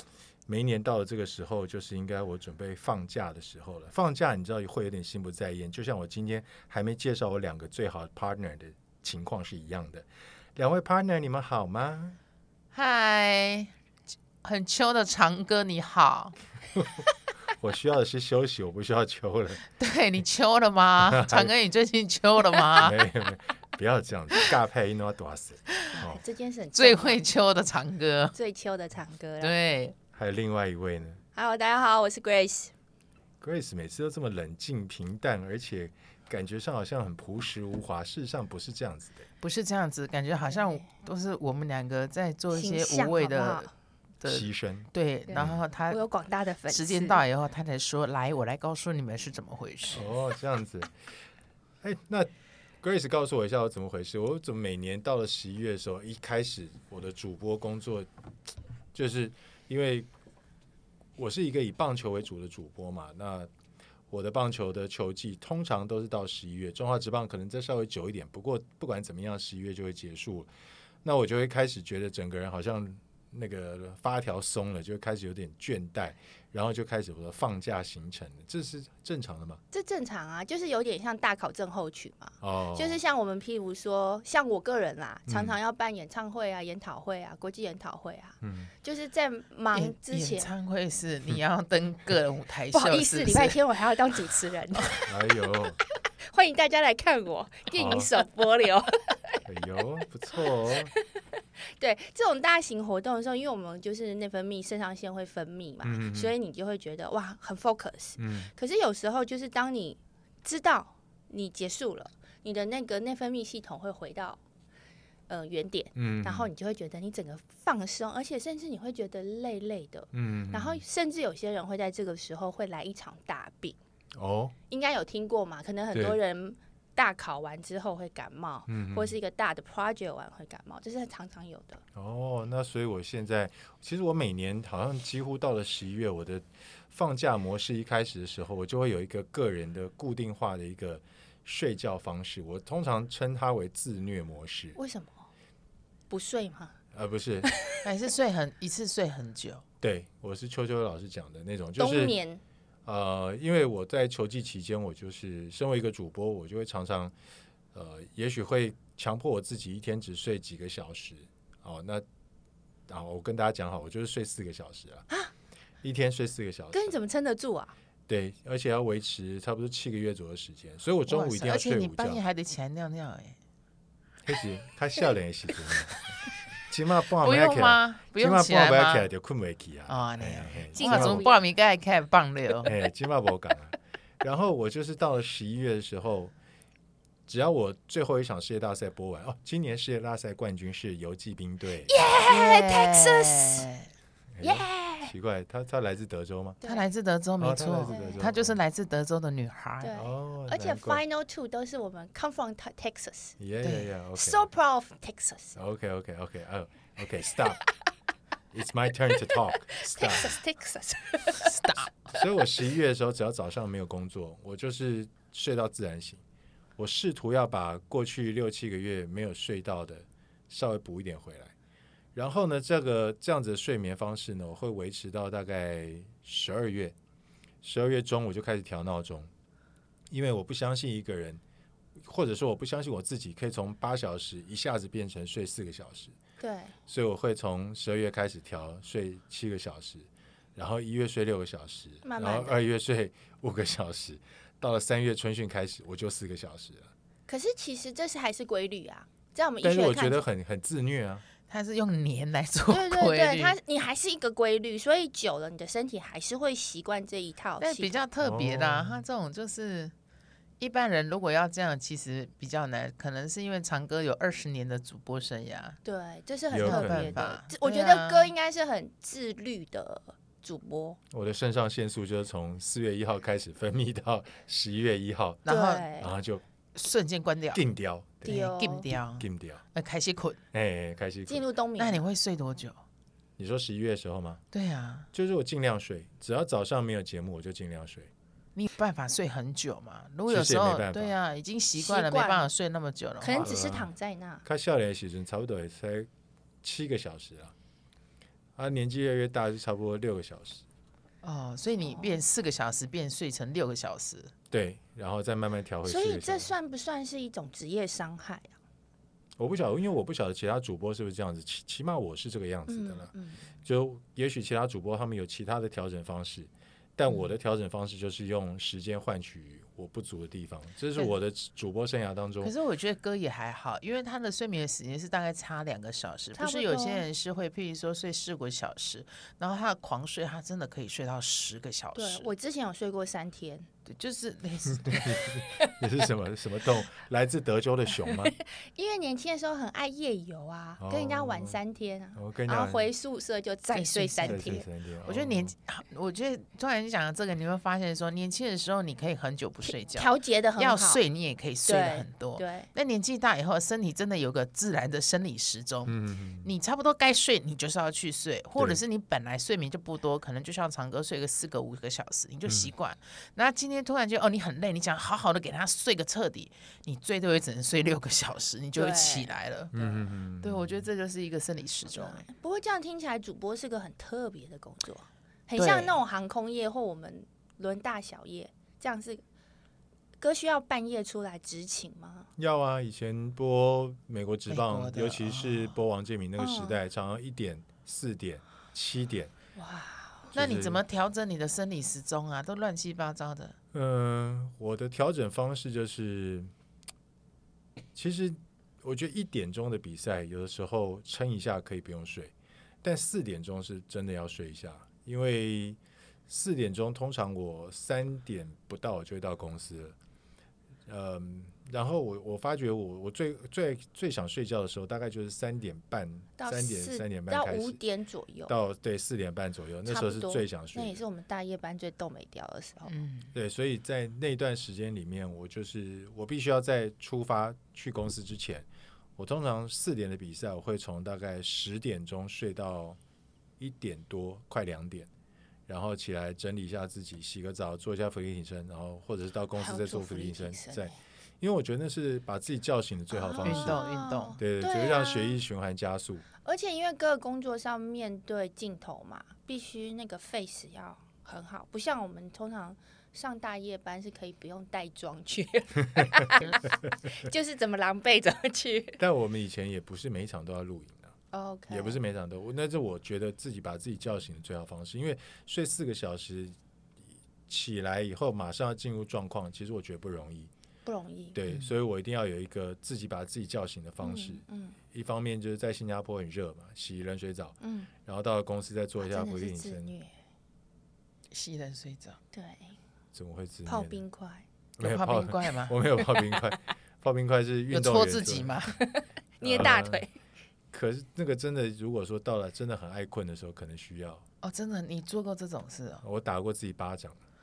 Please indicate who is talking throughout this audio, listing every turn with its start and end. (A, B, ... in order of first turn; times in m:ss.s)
0:00.5-0:12.2 A
0:12.7-0:13.7 B
0:14.4-0:16.4 B
0:16.8-0:19.6 A
0:19.8-0:23.0 B
0:21.0-0:21.5 A
0:22.8-0:26.2 A
0:25.9-0:27.2 C
0:26.7-0:28.3 B
0:28.3-0:29.6 C
0:29.4-0:29.9 B
0:30.1-0:31.2 A
0:31.3-0:32.7 C
0:33.4-0:39.2 A
0:39.4-0:43.7 B
0:40.5-0:40.8 C
0:42.5-0:43.7 C
0:44.2-0:46.0 B
0:44.2-0:45.6 A
0:45.3-0:47.2 C
0:46.7-0:50.1 B
0:49.9-0:50.9 A
0:51.8-0:58.1 A
0:58.9-1:00.1 A
1:01.2-1:03.5 A
1:04.1-1:10.5 A
1:11.0-1:19.6 A
1:19.7-1:30.5 C
1:22.4-1:23.0 A
1:25.3-1:25.6 A
1:28.4-1:28.7 A
1:29.7-1:33.6 B
1:32.7-1:35.3 C
1:35.0-1:35.8 A
1:36.2-1:39.4 C
1:37.7-1:38.1 A
1:39.4-1:40.9 A
1:40.4-1:41.0 C
1:41.6-1:54.4 C
1:45.8-1:46.3 A
1:48.2-1:48.5 A
1:55.3-2:03.8 C
1:56.0-1:56.5 A
2:00.1-2:00.8 A
2:04.1-2:04.5 A
2:04.7-2:11.8 C
2:08.7-2:09.2 A
2:11.9-2:24.8 A
2:24.8-2:25.3 C
2:26.1-2:26.8 C
2:26.9-2:27.5 A
2:27.4-2:27.8 C
2:27.8-2:29.6 B
2:29.8-2:32.2 A
2:31.8-2:32.4 C
2:32.8-2:37.1 A
2:37.7-2:42.0 A
2:42.9-2:45.0 A
2:45.8-2:47.0 A
2:46.7-2:47.7 C
2:48.1-2:52.2 A
2:51.1-2:53.4 B
2:54.2-2:56.1 A
2:56.7-3:01.2 A
2:57.2-2:59.1 B
2:59.9-3:02.7 B
3:00.7-3:01.4 C
3:02.6-3:06.3 A
3:07.3-3:11.9 A
3:11.9-3:13.7 C
3:12.2-3:13.9 B
3:14.3-3:16.6 A
3:14.4-3:15.1 C
3:16.6-3:20.0 B
3:17.4-3:18.6 A
3:17.9-3:18.2 C
3:19.8-3:23.4 C
3:19.9-3:21.0 A
3:23.4-3:24.5 A
3:23.6-3:23.9 B
3:24.2-3:25.6 C
3:25.5-3:27.6 A
3:28.5-3:30.4 A
3:29.3-3:31.5 C
3:31.3-3:31.9 B
3:32.0-3:36.2 A
3:36.8-3:41.5 A
3:42.1-3:46.9 A
3:47.6-3:49.3 A
3:50.1-3:51.4 A
3:52.0-3:56.1 A
3:56.4-3:56.7 C
3:56.9-4:06.9 A
4:02.0-4:02.6 C
4:07.3-4:10.2 C
4:09.6-4:11.2 A
4:11.5-4:13.6 B
4:12.7-4:18.0 C
4:17.6-4:19.9 B
4:18.2-4:19.0 A
4:20.6-4:25.8 B
4:25.8-4:31.0 C
4:26.5-4:27.3 A
4:26.6-4:28.3 B
4:31.1-4:36.4 A
4:35.4-4:35.9 B
4:35.5-4:36.1 C
4:36.7-4:37.6 B
4:37.5-4:38.4 A
4:38.2-4:38.9 C
4:38.2-4:40.4 B
4:39.2-4:39.6 A
4:40.5-4:41.5 A
4:41.3-4:42.0 C
4:41.8-4:42.8 B
4:43.4-4:44.4 A
4:44.5-4:45.1 B
4:45.1-4:48.1 A
4:48.6-4:53.6 B
4:50.3-4:51.1 A
4:51.8-4:52.5 C
4:53.2-4:54.4 C
4:53.4-4:53.9 A
4:54.4-4:56.1 A
4:56.6-4:57.5 A
4:58.6-5:00.6 A
5:01.2-5:04.3 B
5:01.8-5:02.2 C
5:04.5-5:06.5 A
5:05.8-5:08.5 C
5:09.4-5:13.1 A
5:12.7-5:13.5 C
5:13.6-5:22.5 A
5:22.4-5:32.3 B
5:26.3-5:27.0 C
5:31.9-5:33.7 C
5:33.8-5:35.4 B
5:34.8-5:38.3 A
5:38.0-5:44.6 C
5:40.8-5:41.6 A
5:42.1-5:42.9 A
5:43.7-6:12.2 B
5:44.2-5:45.5 A
5:49.7-5:51.0 C
5:51.6-5:52.7 C
5:55.8-5:56.5 A
6:02.4-6:02.7 A
6:08.7-6:09.3 C
6:09.7-6:10.9 A
6:11.8-6:19.2 C
6:15.6-6:16.0 B
6:20.2-6:22.3 C
6:22.4-6:29.3 A
6:24.5-6:25.8 B
6:26.4-6:26.8 C
6:29.6-6:30.3 C
6:30.3-6:30.8 A
6:30.3-6:33.6 B
6:33.7-6:36.5 A
6:37.9-6:50.0 A
6:50.9-6:57.8 A
6:56.4-6:58.5 C
6:58.5-7:01.0 A
6:59.8-7:03.0 C
7:02.9-7:03.3 B
7:03.3-7:13.0 A
7:13.6-7:15.1 A
7:15.7-7:23.8 A
7:19.6-7:20.9 C
7:23.1-7:25.4 C
7:23.4-7:24.4 B
7:24.4-7:26.3 A
7:26.4-7:39.0 C
7:36.0-7:36.3 A
7:39.0-7:41.1 A
7:41.3-7:42.0 C
7:41.7-7:46.6 A
7:47.5-7:50.5 A
7:50.8-7:51.4 C
7:51.3-7:59.9 A
7:54.0-7:54.8 C
7:57.6-7:57.9 C
7:59.0-8:00.1 C
8:01.3-8:02.2 B
8:02.3-8:02.7 C
8:03.1-8:04.0 A
8:03.7-8:04.4 C
8:04.8-8:08.6 A
8:04.8-8:05.8 B
8:07.7-8:08.8 B
8:08.8-8:10.1 C
8:09.4-8:10.0 A
8:10.7-8:14.2 A
8:14.4-8:16.0 B
8:16.0-8:17.2 A